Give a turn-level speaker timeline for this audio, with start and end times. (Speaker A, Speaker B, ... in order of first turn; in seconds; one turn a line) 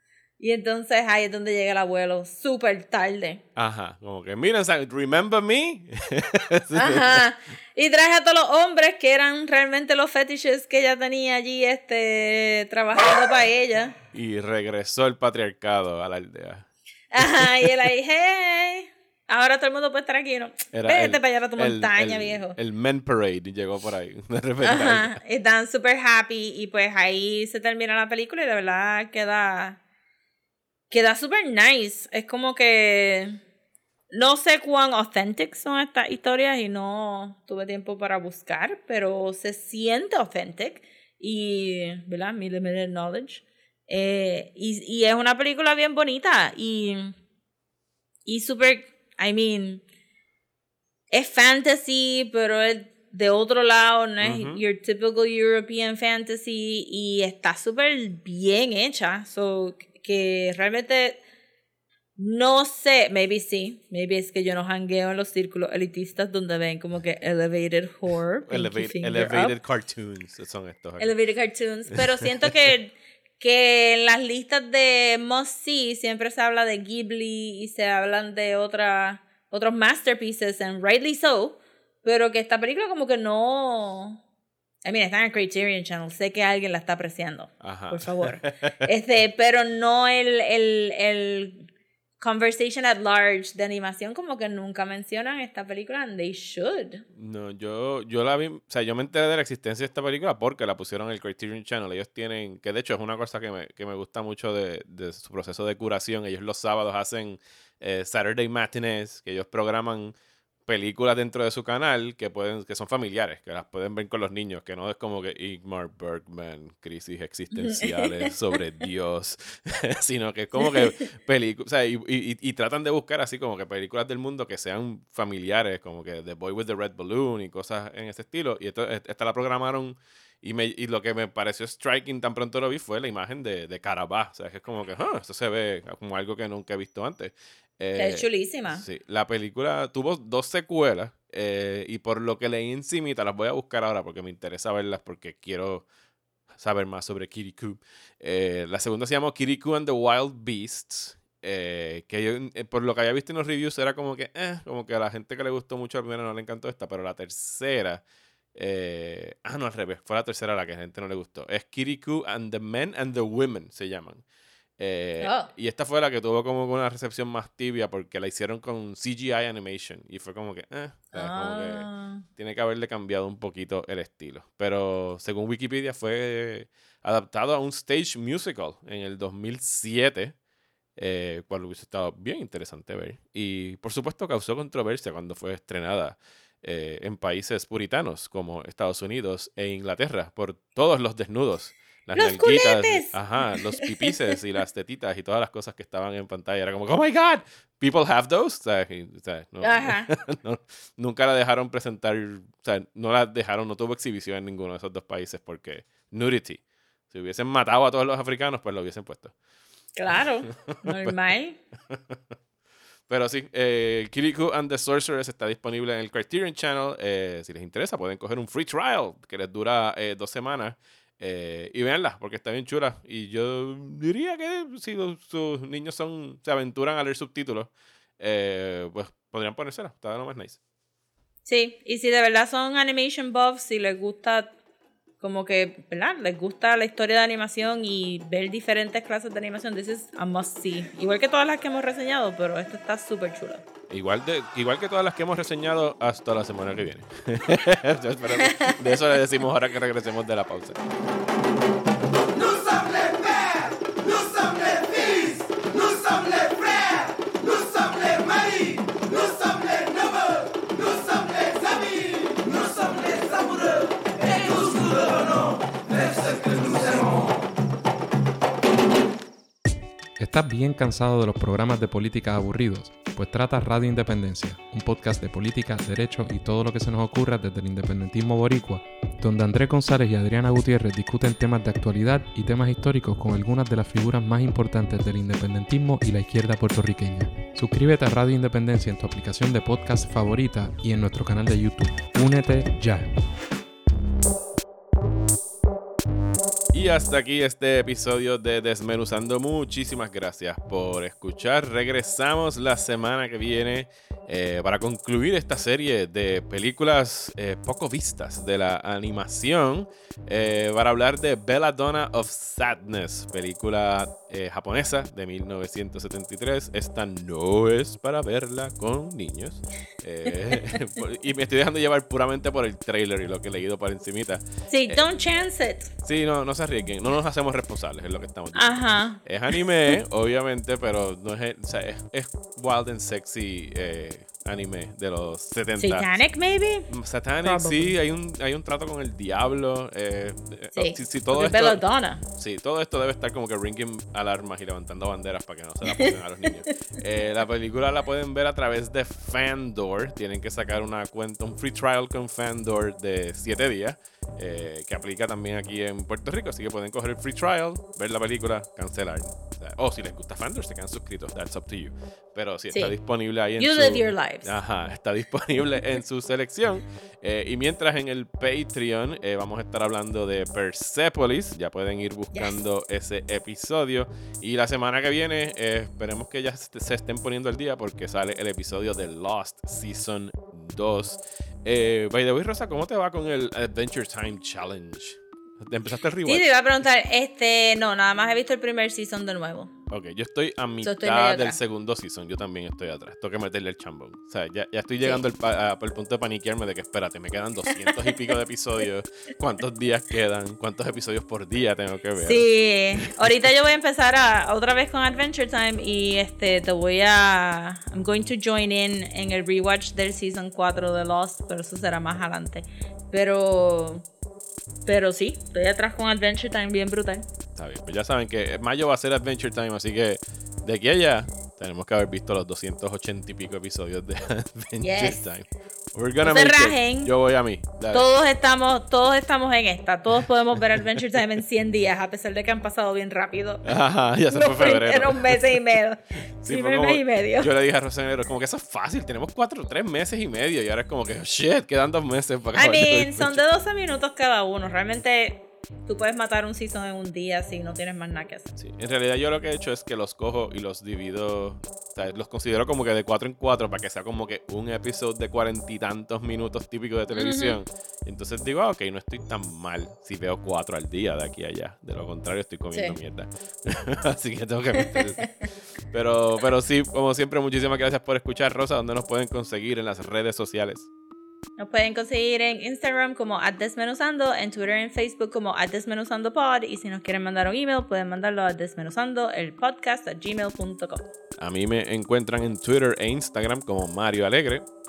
Speaker A: 0.4-3.4
Speaker B: 3.6-7.3
Speaker A: 6.7-14.0
Speaker B: 14.1-17.8
Speaker A: 17.1-22.6
Speaker B: 20.7-25.2
Speaker A: 24.6-29.8
Speaker A: 30.9-33.4
Speaker A: 34.1-47.1
Speaker A: 48.3-49.8
Speaker A: 51.1-61.2
Speaker B: 54.2-54.6
Speaker A: 62.2-69.6
Speaker B: 68.5-71.2
Speaker A: 71.0-84.2
Speaker B: 72.1-72.5
Speaker A: 84.8-91.7
Speaker B: 87.6-88.8
Speaker A: 92.2-97.0
Speaker B: 97.2-110.2
Speaker B: 110.7-145.9
Speaker A: 117.5-118.3
Speaker A: 120.6-121.0
Speaker A: 137.9-138.8
Speaker B: 146.6-158.0
Speaker B: 158.6-164.2
Speaker B: 164.8-180.4
Speaker A: 165.2-165.5
Speaker A: 171.1-172.2
Speaker B: 181.0-209.3
Speaker A: 192.2-194.3
Speaker A: 199.6-200.1
Speaker A: 210.0-211.6
Speaker B: 210.5-211.2
Speaker B: 211.9-212.2
Speaker B: 213.1-230.6
Speaker A: 231.5-234.5
Speaker A: 235.2-243.6
Speaker B: 243.9-250.8
Speaker A: 248.4-248.8
Speaker B: 254.7-255.4
Speaker C: 270.2-293.1
Speaker B: 296.7-325.1
Speaker A: 320.3-320.8
Speaker A: 324.7-325.9
Speaker B: 326.0-336.1
Speaker A: 328.6-330.0
Speaker A: 335.8-336.9
Speaker B: 336.9-341.8
Speaker A: 337.4-338.0
Speaker A: 340.8-342.2
Speaker B: 342.4-386.5
Speaker A: 345.9-346.7
Speaker A: 362.7-363.0
Speaker A: 363.6-364.6
Speaker A: 386.2-389.7
Speaker B: 389.9-403.3
Speaker A: 390.8-391.6
Speaker A: 397.7-398.4
Speaker A: 402.2-414.1
Speaker A: 414.9-417.3
Speaker B: 417.6-428.1
Speaker A: 424.8-425.3
Speaker A: 426.2-427.1
Speaker A: 427.9-433.7
Speaker B: 430.6-431.0
Speaker B: 433.6-435.7
Speaker A: 434.3-437.5
Speaker B: 436.4-443.4
Speaker A: 442.5-448.6
Speaker B: 448.6-465.3
Speaker A: 457.1-457.6
Speaker A: 462.7-463.0
Speaker A: 464.8-465.4
Speaker B: 465.9-470.9
Speaker A: 471.6-481.1
Speaker B: 481.4-484.7